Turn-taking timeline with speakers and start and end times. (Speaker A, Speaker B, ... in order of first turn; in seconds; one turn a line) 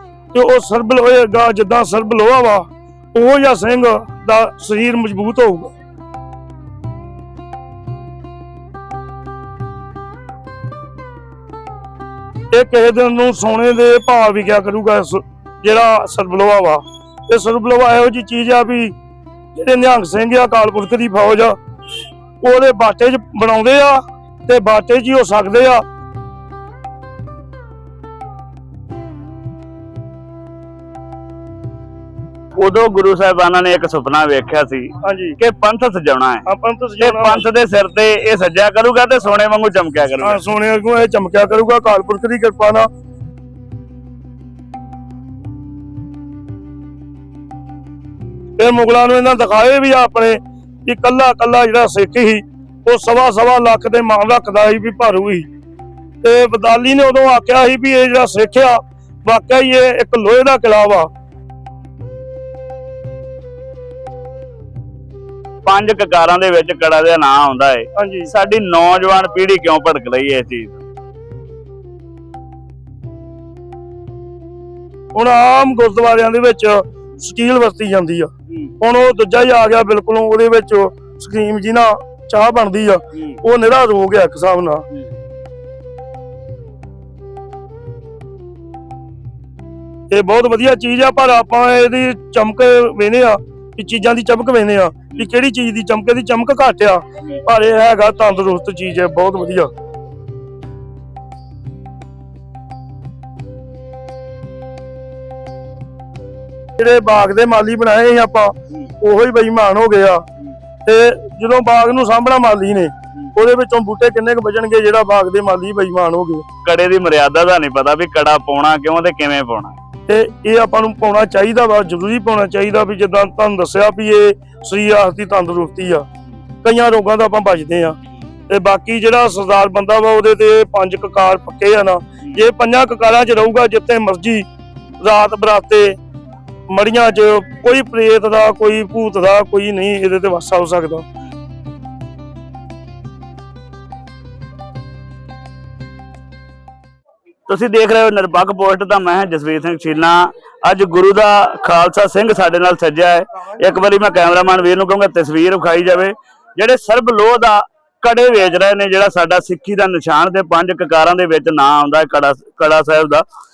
Speaker A: 0.3-5.7
Speaker A: 12.5-18.9
Speaker A: 19.5-21.6
Speaker A: 22.4-25.8
Speaker B: 32.6-36.5
Speaker A: 35.0-35.4
Speaker A: 36.5-37.5
Speaker B: 37.0-40.4
Speaker A: 40.2-42.9
Speaker A: 48.6-55.5
Speaker A: 56.2-61.1
Speaker B: 65.7-70.8
Speaker A: 68.0-68.3
Speaker A: 75.1-84.9
Speaker A: 90.1-99.7
Speaker A: 106.8-110.2
Speaker A: 110.9-116.5
Speaker B: 116.6-119.8
Speaker A: 120.1-126.1
Speaker A: 126.6-128.0
Speaker A: 128.5-134.5
Speaker A: 135.0-136.0
Speaker A: 136.7-141.1
Speaker B: 147.5-163.2